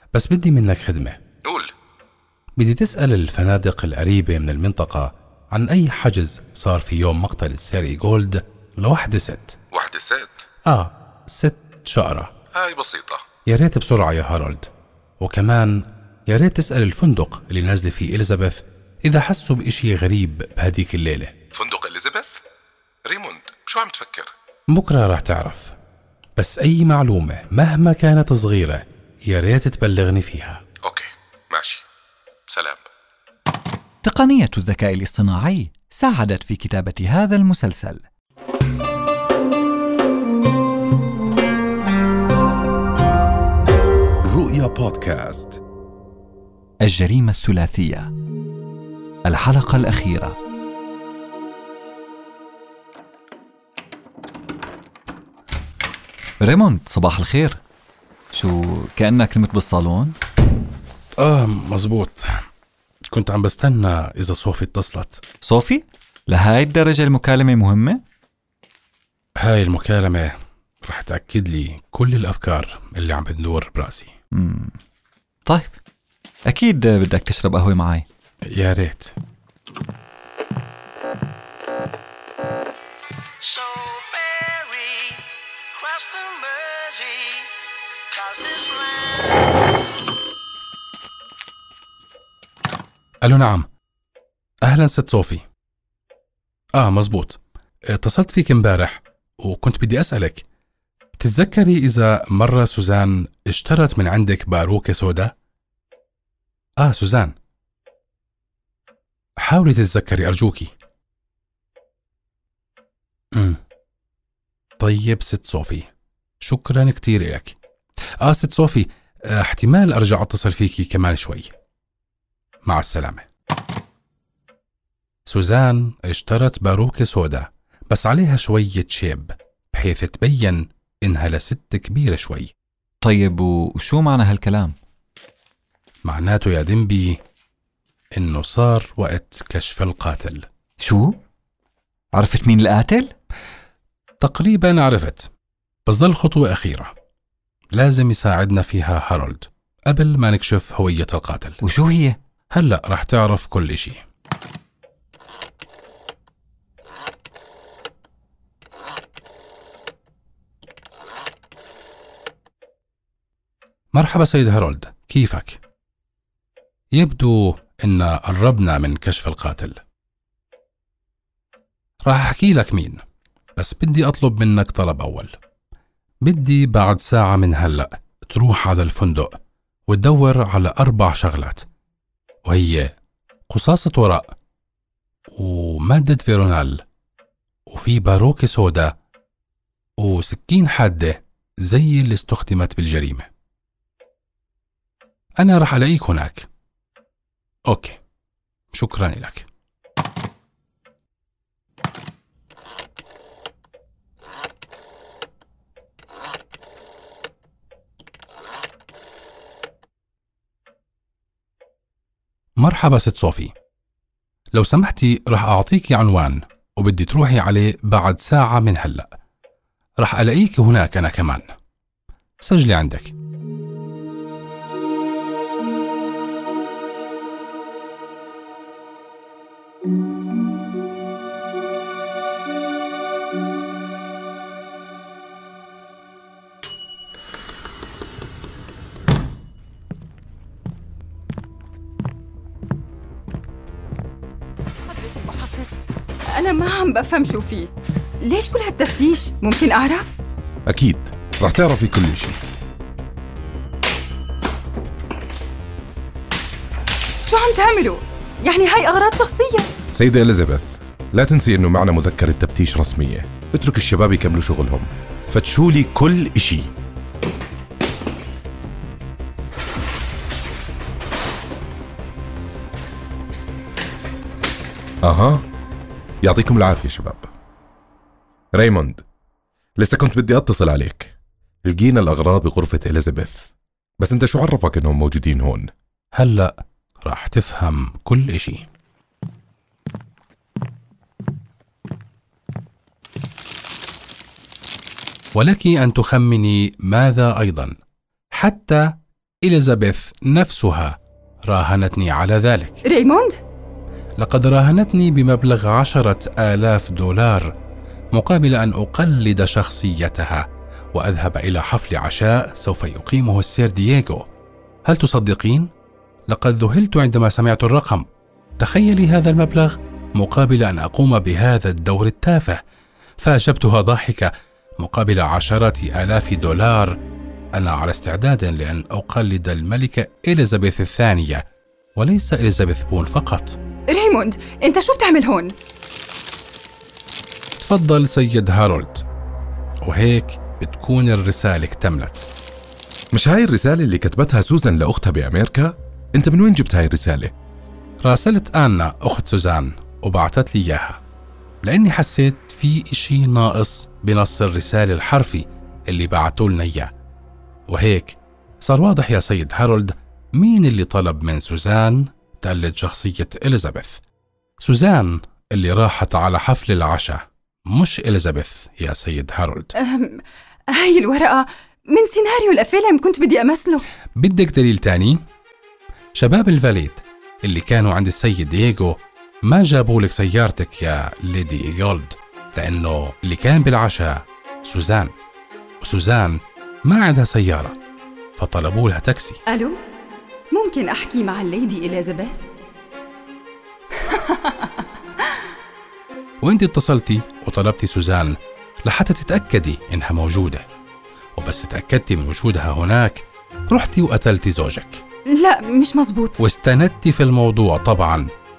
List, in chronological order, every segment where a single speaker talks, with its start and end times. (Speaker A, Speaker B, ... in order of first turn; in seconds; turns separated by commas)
Speaker A: 0.1-1.2, Speaker B: 1.4-1.7, Speaker A: 2.6-9.6, Speaker B: 9.7-10.4, Speaker A: 10.7-12.3, Speaker B: 12.5-13.2, Speaker A: 13.5-21.4, Speaker B: 21.5-22.4, Speaker B: 23.1-24.3, Speaker A: 24.7-25.8, Speaker A: 26.4-30.6, Speaker B: 30.8-31.8, Speaker B: 32.5-32.9, Speaker C: 34.0-38.0, Speaker B: 44.2-45.6, Speaker C: 46.8-48.1, Speaker C: 49.2-50.4, Speaker C: 56.4-57.6, Speaker C: 58.3-60.2, Speaker A: 61.2-62.3, Speaker A: 63.1-65.2, Speaker C: 65.4-68.0, Speaker A: 69.4-70.3, Speaker A: 70.8-74.2, Speaker C: 74.3-74.8, Speaker C: 75.5-75.8, Speaker C: 76.5-78.1, Speaker A: 78.5-79.1, Speaker D: 83.5-84.9, Speaker D: 85.8-87.4, Speaker D: 88.1-89.2, Speaker A: 93.2-93.7, Speaker A: 94.6-95.5, Speaker A: 96.8-100.5, Speaker A: 101.2-105.3, Speaker A: 106.8-107.4, Speaker A: 109.4-110.7, Speaker A: 113.3-113.6, Speaker A: 114.8-115.9, Speaker A: 116.4-117.6, Speaker A: 118.2-121.5, Speaker A: 122.7-123.2, Speaker A: 125.3-132.5, Speaker C: 133.0-134.8, Speaker A: 136.0-137.2, Speaker A: 138.2-140.4, Speaker C: 140.8-141.2, Speaker C: 142.1-143.1, Speaker A: 144.2-145.3, Speaker A: 145.9-146.9, Speaker A: 147.7-151.6, Speaker C: 151.6-152.2, Speaker A: 152.5-154.0, Speaker A: 163.9-165.6, Speaker A: 166.9-169.8, Speaker A: 172.1-173.0, Speaker A: 173.6-175.3, Speaker A: 176.2-179.3, Speaker A: 179.9-181.7, Speaker A: 182.4-182.9, Speaker A: 183.5-184.3, Speaker A: 185.4-186.8, Speaker A: 187.7-189.0, Speaker A: 190.0-193.3, Speaker A: 195.4-196.5, Speaker A: 197.7-198.0, Speaker A: 198.7-199.5, Speaker A: 212.6-213.5, Speaker A: 214.5-219.1, Speaker A: 220.0-221.4, Speaker A: 222.4-223.1, Speaker E: 244.9-245.7, Speaker E: 246.3-247.7, Speaker E: 248.2-250.2, Speaker B: 250.7-252.4, Speaker E: 257.2-259.7, Speaker B: 259.9-266.7, Speaker B: 275.0-275.4, Speaker B: 276.2-277.3, Speaker B: 278.6-279.0, Speaker B: 279.8-285.7, Speaker A: 286.1-288.7, Speaker A: 295.3-297.7, Speaker A: 298.4-302.8, Speaker E: 302.9-303.4, Speaker A: 304.2-307.5, Speaker A: 308.1-314.2, Speaker A: 314.9-315.7, Speaker A: 316.3-318.1, Speaker A: 318.6-322.6, Speaker A: 323.2-327.0, Speaker A: 327.6-331.4, Speaker A: 332.0-333.6, Speaker E: 333.9-335.5, Speaker A: 337.6-339.0, Speaker A: 339.8-342.3, Speaker B: 343.1-347.3, Speaker A: 348.1-351.0, Speaker A: 351.6-356.9, Speaker A: 357.7-364.0, Speaker A: 364.6-369.7, Speaker E: 369.8-370.2, Speaker E: 370.8-373.8, Speaker A: 374.2-375.2, Speaker A: 376.2-385.1, Speaker A: 385.8-387.8, Speaker A: 388.4-389.4, Speaker E: 389.5-389.8, Speaker E: 390.5-392.4, Speaker E: 394.0-394.8, Speaker A: 396.4-400.6, Speaker A: 401.4-405.0, Speaker E: 405.4-406.4, Speaker A: 406.4-408.3